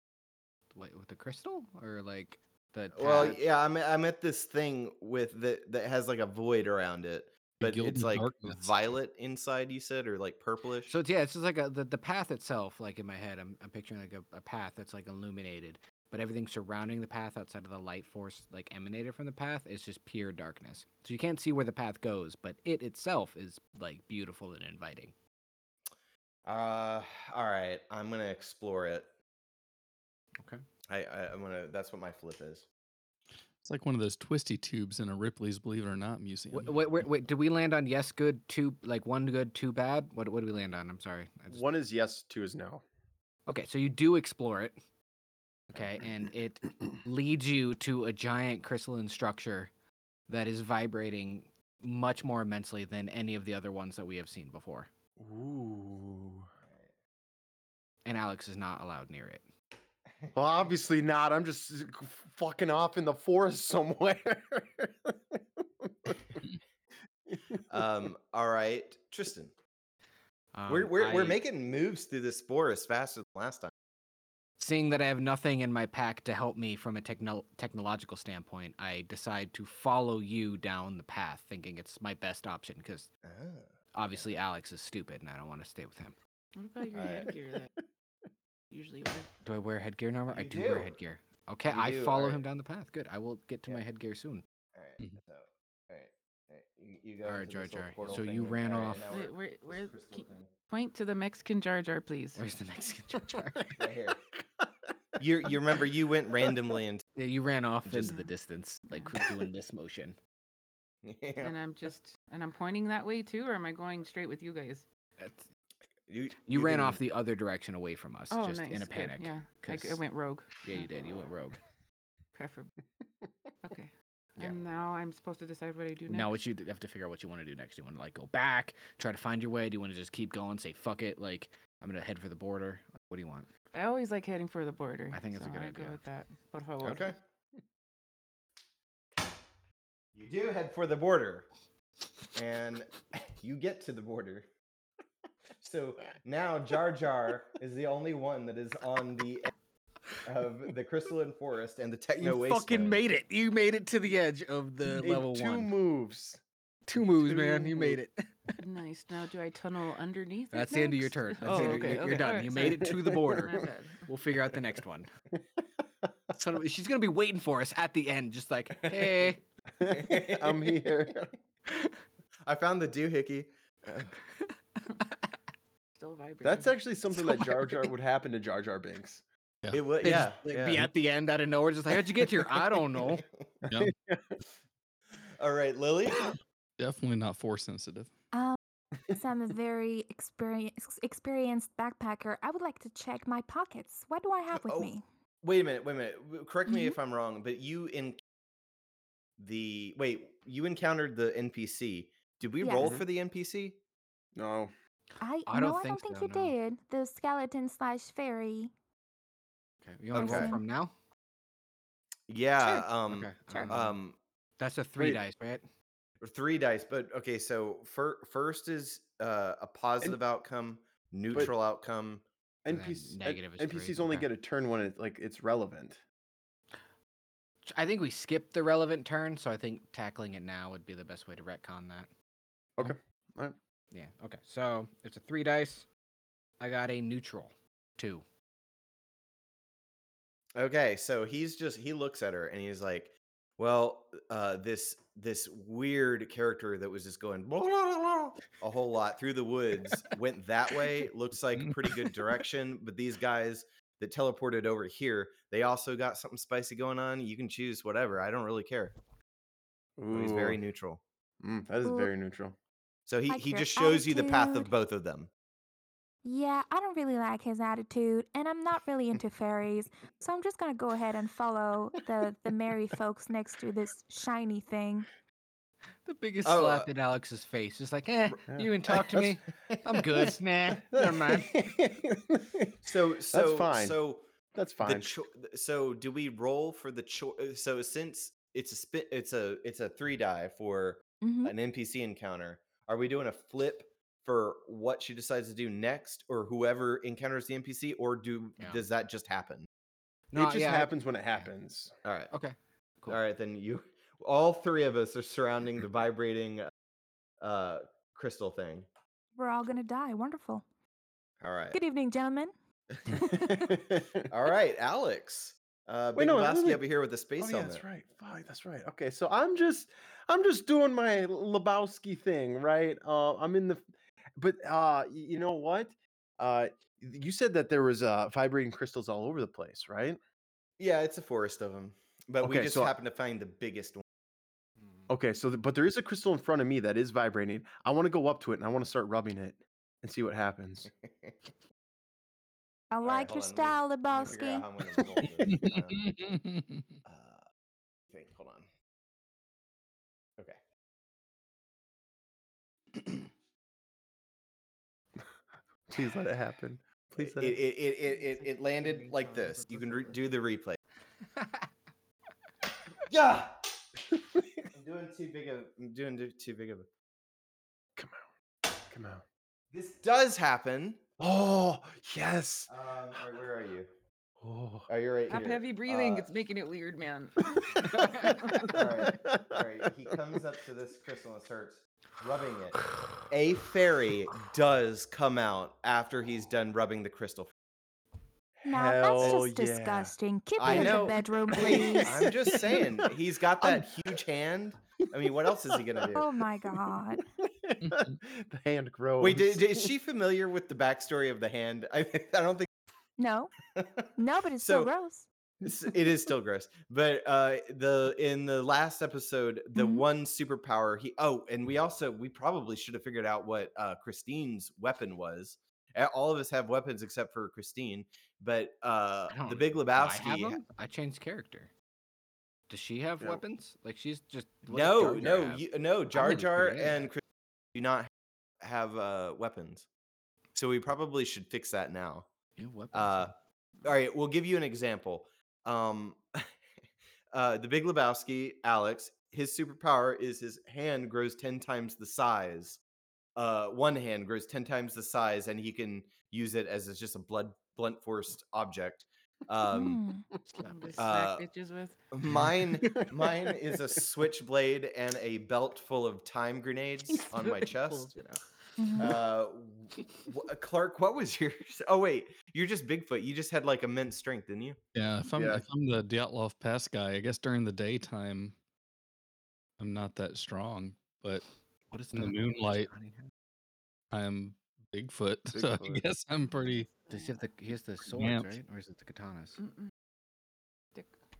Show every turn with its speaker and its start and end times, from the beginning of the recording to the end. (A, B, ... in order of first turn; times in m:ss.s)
0:00.7-0:03.4 A
0:02.9-0:10.9 B
0:07.6-0:08.8 C
0:10.9-0:25.1 A
0:26.4-0:29.1 B
0:30.9-0:32.6 B
0:33.6-0:36.7 C
0:36.5-0:41.6 A
0:41.5-0:42.8 D
0:43.5-0:44.7 A
0:45.7-0:49.7 A
0:50.3-0:54.9 A
0:55.2-0:56.5 D
0:58.0-0:59.4 A
1:00.3-1:06.2 D
1:07.3-1:07.6 D
1:07.7-1:09.5 B
1:10.5-1:11.4 A
1:10.7-1:13.7 B
1:14.6-1:23.1 A
1:23.2-1:23.7 B
1:23.9-1:26.2 A
1:26.6-1:27.7 E
1:26.9-1:27.3 B
1:28.7-1:29.3 E
1:29.4-1:34.4 A
1:30.3-1:30.9 B
1:31.7-1:32.4 B
1:34.7-1:40.5 B
1:37.2-1:39.0 A
1:39.1-1:42.4 E
1:42.4-1:43.8 A
1:43.8-1:44.2 B
1:45.2-1:47.0 B
1:47.2-1:50.2 A
1:47.8-1:48.1 B
1:51.0-1:51.6 B
1:51.4-1:54.8 E
1:55.2-1:55.4 A
1:56.1-1:57.0 B
1:56.5-2:00.0 A
1:58.3-2:00.9 E
2:00.6-2:01.6 A
2:02.3-2:02.7 E
2:03.6-2:06.4 E
2:06.1-2:13.5 A
2:13.7-2:17.1 E
2:15.1-2:16.0 A
2:16.8-2:17.2 B
2:20.1-2:21.5 B
2:22.3-2:24.5 B
2:25.6-2:29.5 B
2:30.2-2:33.0 B
2:32.2-2:35.7 A
2:34.8-2:36.4 D
2:36.9-2:38.6 A
2:37.0-2:38.0 D
2:38.6-2:44.1 E
2:40.5-2:45.1 A
2:42.8-2:43.6 D
2:46.3-2:49.4 A
2:49.8-2:51.3 D
2:49.9-2:50.8 B
2:52.4-2:54.1 B
2:56.0-2:56.8 E
2:56.4-2:59.2 D
2:59.7-3:00.9 B
3:00.0-3:03.2 A
3:03.7-3:04.4 D
3:05.3-3:06.4 B
3:06.8-3:08.1 C
3:08.3-3:08.6 F
3:09.1-3:15.0 F
3:14.5-3:18.2 B
3:16.7-3:17.0 F
3:19.4-3:23.8 B
3:22.6-3:23.0 F
3:22.8-3:23.0 D
3:24.4-3:24.7 D
3:25.2-3:28.7 F
3:25.5-3:26.5 A
3:29.8-3:30.9 A
3:30.1-3:30.5 B
3:30.1-3:30.6 F
3:32.3-3:34.2 B
3:32.7-3:34.0 A
3:34.6-3:35.6 A
3:36.2-3:42.2 B
3:42.6-3:46.0 D
3:42.7-3:44.3 A
3:47.7-3:52.1 A
3:52.8-3:53.6 D
3:53.9-3:55.8 A
3:56.6-3:58.2 A
4:00.6-4:19.0 B
4:20.0-4:20.6 D
4:20.1-4:21.0 B
4:21.4-4:22.5 D
4:21.8-4:22.1 F
4:23.1-4:25.3 B
4:23.3-4:24.7 F
4:26.2-4:35.1 F
4:36.0-4:41.7 A
4:36.4-4:36.9 B
4:38.5-4:39.4 D
4:40.8-4:42.8 D
4:42.8-4:44.3 B
4:43.3-4:44.0 D
4:44.5-4:45.2 D
4:44.8-4:59.7 B
4:51.2-4:51.5 F
5:00.3-5:01.5 A
5:00.3-5:01.9 D
5:02.0-5:02.3 B
5:02.3-5:03.2 A
5:03.1-5:06.7 B
5:07.4-5:08.9 B
5:09.4-5:10.6 F
5:11.4-5:11.8 B
5:11.7-5:12.5 F
5:13.1-5:13.9 F
5:13.4-5:14.3 D
5:14.3-5:17.8 B
5:16.2-5:16.8 D
5:17.4-5:23.8 D
5:24.4-5:30.2 D
5:30.8-5:34.0 B
5:32.4-5:32.9 D
5:35.1-5:40.9 D
5:41.0-5:41.3 B
5:42.9-5:44.6 F
5:43.0-5:46.1 B
5:45.0-5:45.6 D
5:45.4-5:46.9 C
5:47.0-5:47.4 B
5:48.1-5:48.6 B
5:55.9-5:57.6 D
5:57.2-6:00.8 B
5:58.1-6:00.2 E
6:01.4-6:01.6 A
6:03.0-6:03.6 B
6:04.7-6:06.9 B
6:08.0-6:08.2 D
6:08.8-6:09.2 D
6:09.7-6:11.0 B
6:11.2-6:12.7 D
6:12.7-6:13.9 B
6:14.4-6:14.9 D
6:14.9-6:16.3 B
6:15.3-6:18.7 E
6:18.0-6:19.6 D
6:18.7-6:27.5 B
6:28.6-6:33.9 D
6:28.6-6:32.1 F
6:29.2-6:29.4 B
6:30.6-6:36.3 B
6:35.3-6:36.2 D
6:36.1-6:37.2 F
6:36.7-6:39.9 D
6:37.8-6:38.2 C
6:39.2-6:42.7 B
6:43.2-6:43.5 F
6:43.7-6:44.1 B
6:44.2-6:45.2 F
6:44.6-6:44.9 B
6:45.6-7:00.6 B
6:49.8-6:50.0 F
6:59.3-7:01.7 A
7:02.7-7:07.1 A
7:04.7-7:07.2 B
7:07.7-7:08.1 B
7:08.6-7:09.8 B
7:10.5-7:12.3 B
7:12.6-7:13.3 A
7:12.9-7:16.4 B
7:17.3-7:22.8 B
7:23.4-7:30.0 B
7:29.7-7:30.2 F
7:30.6-7:31.1 A
7:30.6-7:32.1 E
7:31.0-7:31.4 B
7:32.1-7:38.1 B
7:32.8-7:33.5 D
7:38.8-7:39.2 F
7:39.0-7:44.8 B
7:44.9-7:48.6 C
7:45.3-7:45.6 D
7:49.8-7:51.4 C
7:51.9-7:53.3 A
7:52.1-7:52.9 C
7:54.1-7:56.9 C
7:55.5-7:56.0 D
7:57.1-7:57.4 E
7:57.1-7:59.6 A
7:58.1-7:58.5 C
7:59.6-7:59.9 E